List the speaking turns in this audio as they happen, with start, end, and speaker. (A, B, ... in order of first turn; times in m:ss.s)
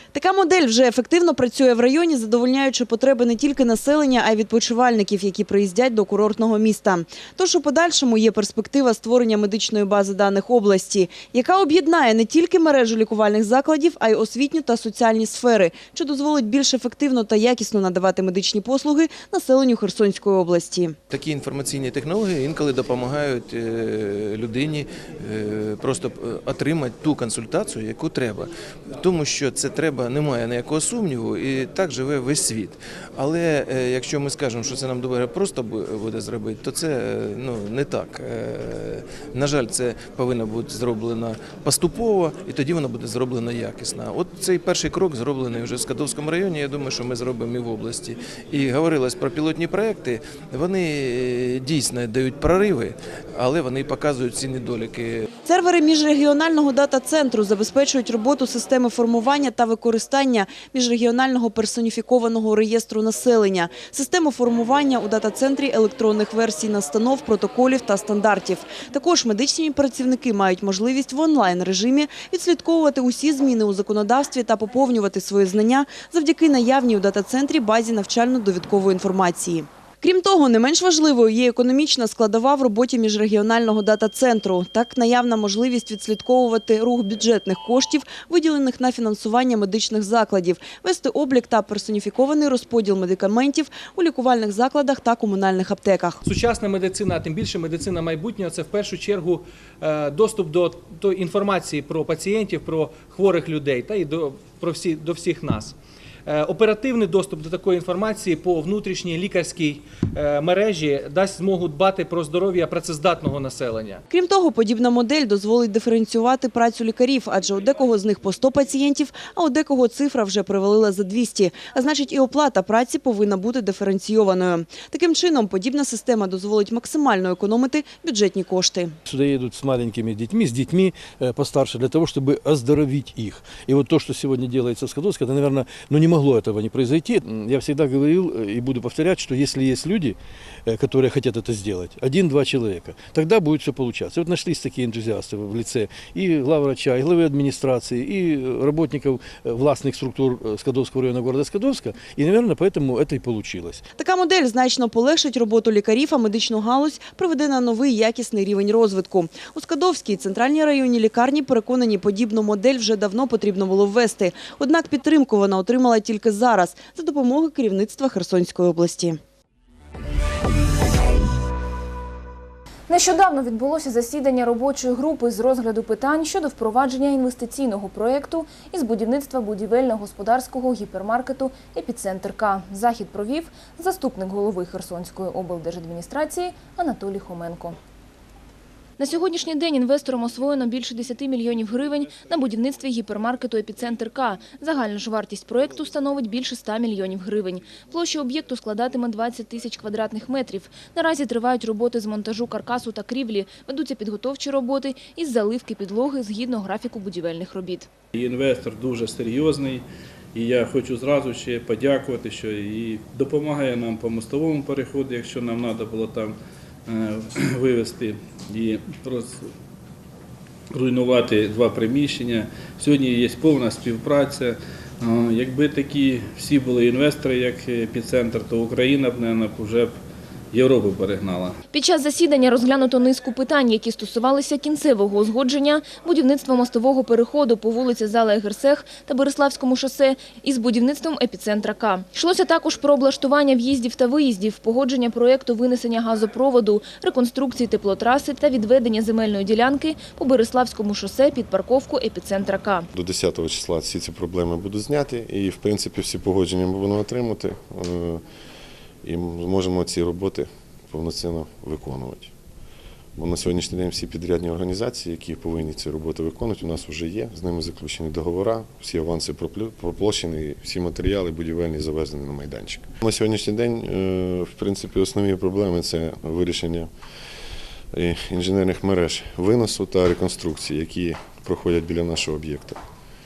0:00.1-0:21.0 A
0:21.1-0:55.3 B
0:55.4-1:36.2 A
1:36.2-1:45.8 C
1:46.3-1:54.0 C
1:54.1-2:09.0 A
2:09.1-2:33.8 D
2:34.0-2:49.2 A
2:52.9-3:07.8 E
3:09.0-3:27.9 E
3:28.1-3:36.4 F
3:36.9-3:39.4 F
3:40.7-3:49.9 F
3:50.5-3:51.6 F
3:51.7-4:12.9 E
4:12.9-4:18.2 G
4:19.0-4:22.3 G
4:23.2-4:36.9 G
4:37.9-4:42.8 G